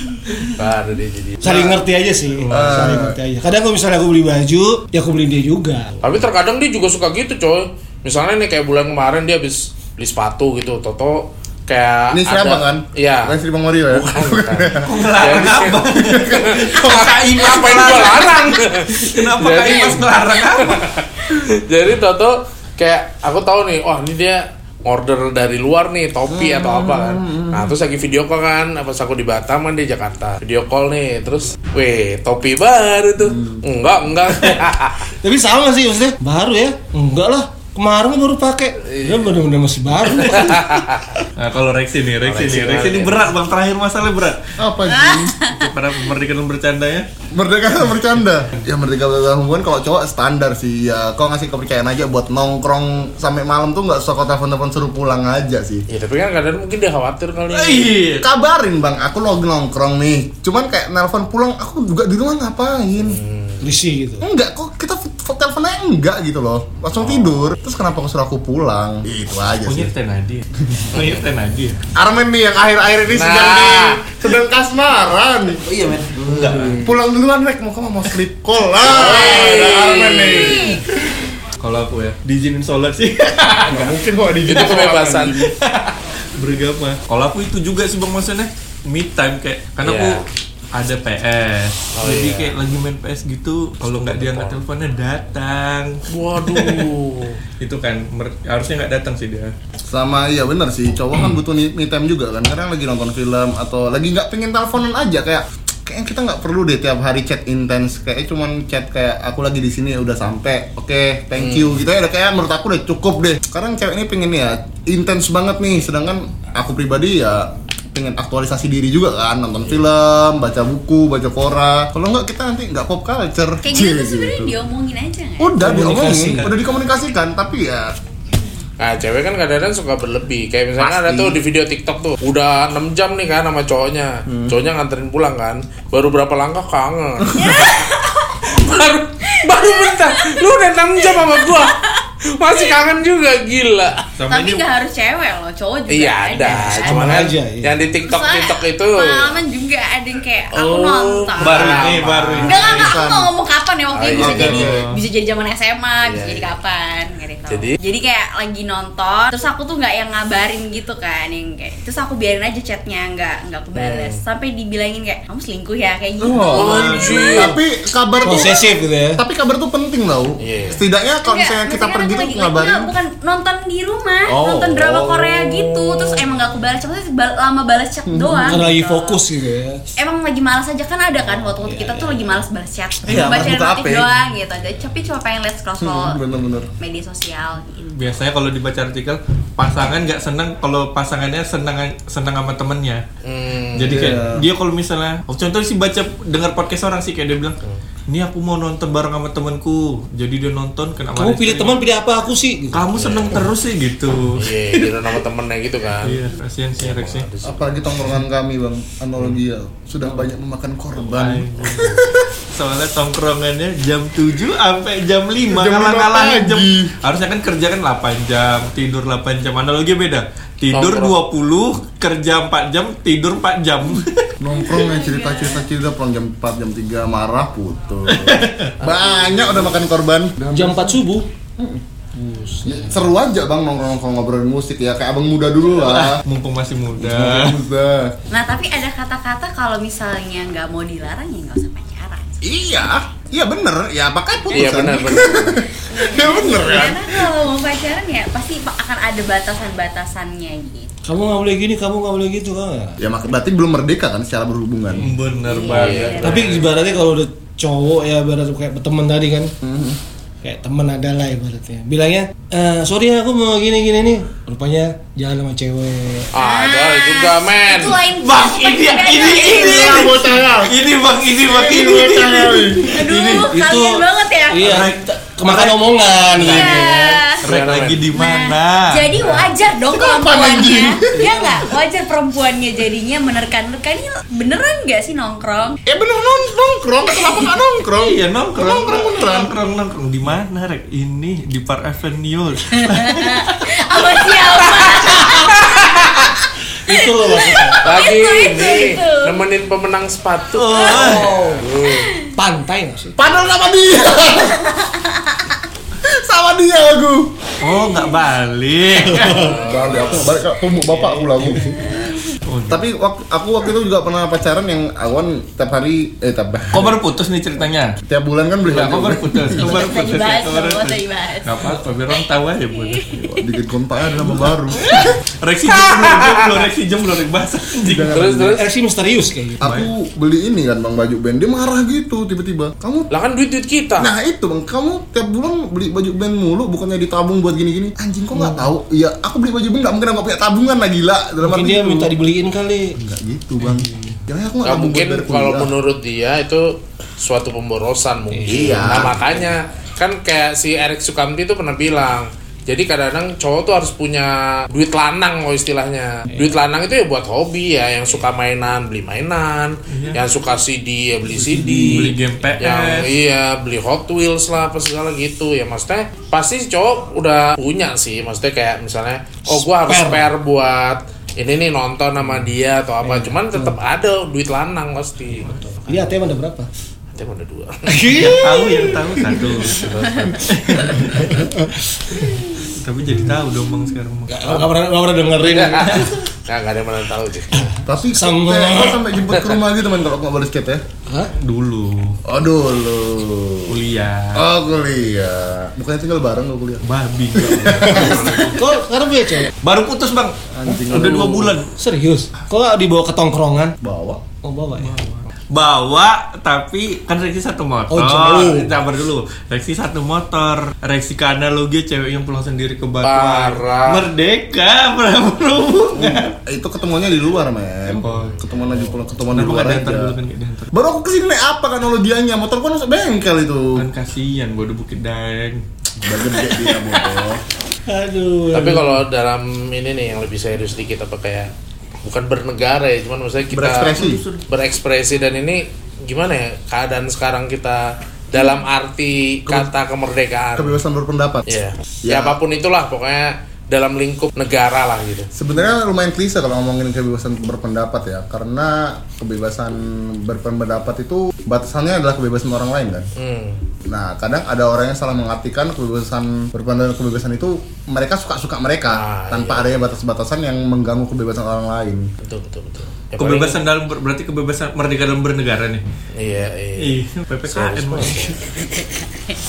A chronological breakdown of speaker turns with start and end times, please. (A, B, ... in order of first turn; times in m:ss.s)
0:00.4-0:01.7 A
0:01.4-0:06.0 B
0:02.4-0:02.8 C
0:02.5-0:03.2 D
0:06.0-0:13.4 A
0:12.1-0:15.3 D
0:13.9-0:35.1 A
0:14.8-0:20.8 C
0:15.9-0:17.1 D
0:26.3-0:27.7 D
0:33.2-0:33.6 D
0:35.2-0:40.8 B
0:38.9-0:39.3 A
0:40.2-0:40.5 C
0:40.3-0:41.1 A
0:41.4-0:44.4 C
0:42.2-0:43.3 A
0:44.6-0:45.4 D
0:44.9-0:45.7 E
0:45.4-0:47.1 C
0:47.3-0:55.8 D
0:55.9-0:58.0 A
0:57.5-0:58.3 C
0:58.2-1:03.2 D
1:03.0-1:03.6 A
1:03.6-1:04.3 B
1:04.2-1:09.9 D
1:09.6-1:11.8 C
1:10.9-1:11.2 A
1:12.0-1:20.8 D
1:13.1-1:14.0 A
1:16.1-1:16.9 C
1:18.8-1:20.8 A
1:20.2-1:20.8 E
1:21.6-1:23.9 C
1:23.6-1:25.5 D
1:24.4-1:25.4 A
1:25.4-1:36.8 C
1:29.8-1:30.2 A
1:32.0-1:32.5 A
1:34.0-1:34.6 A
1:36.1-1:37.4 A
1:37.6-1:39.5 C
1:39.8-2:04.6 D
1:51.4-1:51.7 A
2:03.6-2:05.6 E
2:05.4-2:08.0 D
2:05.6-2:06.5 B
2:08.8-2:17.9 A
2:10.8-2:11.4 D
2:14.3-2:14.5 D
2:17.3-2:18.5 E
2:18.4-2:21.8 A
2:19.3-2:20.4 E
2:21.0-2:22.7 E
2:22.3-2:24.0 A
2:24.2-2:24.6 C
2:24.3-2:27.1 E
2:25.9-2:29.4 A
2:26.5-2:27.7 B
2:28.0-2:47.4 E
2:30.5-2:32.9 A
2:31.4-2:32.9 C
2:32.5-2:33.3 D
2:33.9-2:34.7 A
2:34.1-2:34.9 D
2:34.6-2:35.0 C
2:36.0-2:36.5 A
2:37.5-2:37.8 A
2:43.7-2:44.2 A
2:46.2-2:48.6 D
2:46.5-2:47.6 A
2:46.6-2:47.5 C
2:48.2-2:49.2 B
2:49.2-2:52.9 D
2:50.4-2:50.8 A
2:51.2-2:59.2 E
2:54.2-2:55.9 D
2:58.0-2:58.6 D
2:58.5-2:59.8 B
3:00.0-3:06.2 E
3:01.8-3:02.1 B
3:03.0-3:04.1 D
3:05.8-3:06.7 D
3:06.8-3:08.1 E
3:07.9-3:13.0 C
3:13.2-3:14.1 A
3:13.7-3:21.8 C
3:13.8-3:14.5 D
3:21.2-3:23.1 B
3:22.7-3:25.2 C
3:22.9-3:23.4 A
3:24.4-3:26.2 A
3:26.0-3:27.3 C
3:26.8-3:27.8 A
3:27.4-3:32.3 D
3:31.1-3:32.0 C
3:31.7-3:32.1 A
3:32.5-3:44.3 C
3:35.4-3:36.9 D
3:40.7-3:41.1 A
3:44.4-3:51.0 D
3:44.6-3:45.6 E
3:48.1-3:48.7 C
3:48.8-3:49.8 A
3:50.5-3:51.3 B
3:52.2-3:52.6 B
3:52.6-3:56.2 D
3:55.8-3:57.6 C
3:56.9-3:58.1 D
3:58.3-4:02.2 E
4:02.4-4:07.3 D
4:04.5-4:05.6 A
4:04.5-4:10.9 E
4:11.0-4:13.0 B
4:13.0-4:15.1 D
4:15.0-4:16.5 C
4:15.4-4:16.7 E
4:15.6-4:16.6 A
4:16.2-4:19.5 B
4:19.6-4:20.0 D
4:20.4-4:26.3 B
4:26.3-4:28.0 A
4:26.4-4:30.4 E
4:28.2-4:33.8 C
4:29.4-4:30.8 D
4:31.4-4:33.1 D
4:32.8-4:34.9 E
4:33.5-4:37.2 B
4:34.6-4:36.8 C
4:36.4-4:37.4 E
4:37.4-4:38.1 A
4:37.4-4:39.4 C
4:38.1-4:45.8 E
4:39.9-4:41.3 D
4:41.1-4:41.6 B
4:45.9-4:49.5 D
4:47.2-4:47.5 E
4:48.0-4:53.5 C
4:52.8-4:56.3 E
4:54.6-4:56.3 A
4:55.1-4:55.5 B
4:56.9-4:57.8 B
4:56.9-4:59.4 E
4:57.8-5:02.1 A
5:00.6-5:01.4 C
5:00.7-5:02.3 E
5:00.9-5:01.7 B
5:02.3-5:03.2 B
5:03.2-5:04.8 D
5:04.2-5:05.5 E
5:06.0-5:07.4 D
5:07.6-5:09.6 C
5:07.7-5:08.2 E
5:09.1-5:09.5 B
5:09.2-5:10.3 A
5:09.5-5:11.8 D
5:10.9-5:11.9 B
5:11.9-5:12.2 E
5:12.4-5:12.8 C
5:12.7-5:17.0 D
5:16.7-5:18.0 C
5:18.0-5:19.7 D
5:18.6-5:23.4 C
5:19.6-5:21.8 E
5:22.8-5:23.2 E
5:23.3-5:25.1 D
5:24.2-5:28.2 C
5:25.7-5:26.7 A
5:27.8-5:28.6 D
5:28.1-5:28.6 A
5:28.5-5:29.6 B
5:29.6-5:33.1 D
5:29.6-5:29.9 C
5:33.1-5:34.1 A
5:34.0-5:42.1 D
5:41.4-5:42.9 B
5:43.0-5:45.7 D
5:43.7-5:44.1 B
5:44.6-6:16.2 A
5:48.3-5:48.8 B
5:48.5-5:49.3 D
5:59.9-6:00.2 C
6:01.6-6:03.1 C
6:09.5-6:10.2 B
6:13.0-6:13.8 B
6:15.4-6:16.7 B
6:17.1-6:18.2 A
6:17.9-6:19.6 B
6:18.1-6:21.5 C
6:19.6-6:20.5 A
6:20.6-6:22.6 B
6:22.2-6:24.7 C
6:24.3-6:26.2 B
6:25.4-6:27.7 A
6:25.9-6:26.2 C
6:27.5-6:29.1 B
6:27.8-6:30.8 D
6:29.3-6:29.6 A
6:31.1-6:31.3 B
6:31.4-6:32.2 C
6:32.2-6:33.8 D
6:33.7-6:34.4 C
6:34.3-6:38.5 D
6:36.8-6:38.6 C
6:37.8-6:39.5 B
6:39.6-6:40.3 C
6:40.5-6:41.6 D
6:40.8-6:41.7 C
6:41.8-6:43.7 B
6:43.8-6:44.2 D
6:44.4-6:45.0 B
6:44.8-6:56.4 C
6:47.9-6:48.8 B
6:53.0-6:54.1 A
6:56.4-7:00.1 D
6:57.9-7:00.7 C
6:58.1-6:58.6 A
7:00.7-7:03.9 D
7:03.8-7:05.6 C
7:06.0-7:07.4 D
7:06.4-7:07.0 B
7:07.9-7:09.0 B
7:08.5-7:11.5 A
7:12.0-7:20.8 A
7:13.5-7:14.2 D
7:13.9-7:14.4 C
7:20.6-7:22.4 D
7:21.5-7:25.3 A
7:25.3-7:33.1 D
7:33.2-7:33.6 A
7:33.8-7:42.1 D
7:38.9-7:39.7 A
7:42.2-7:43.6 A
7:43.2-7:45.8 C
7:46.2-7:48.4 A
7:46.8-7:48.4 C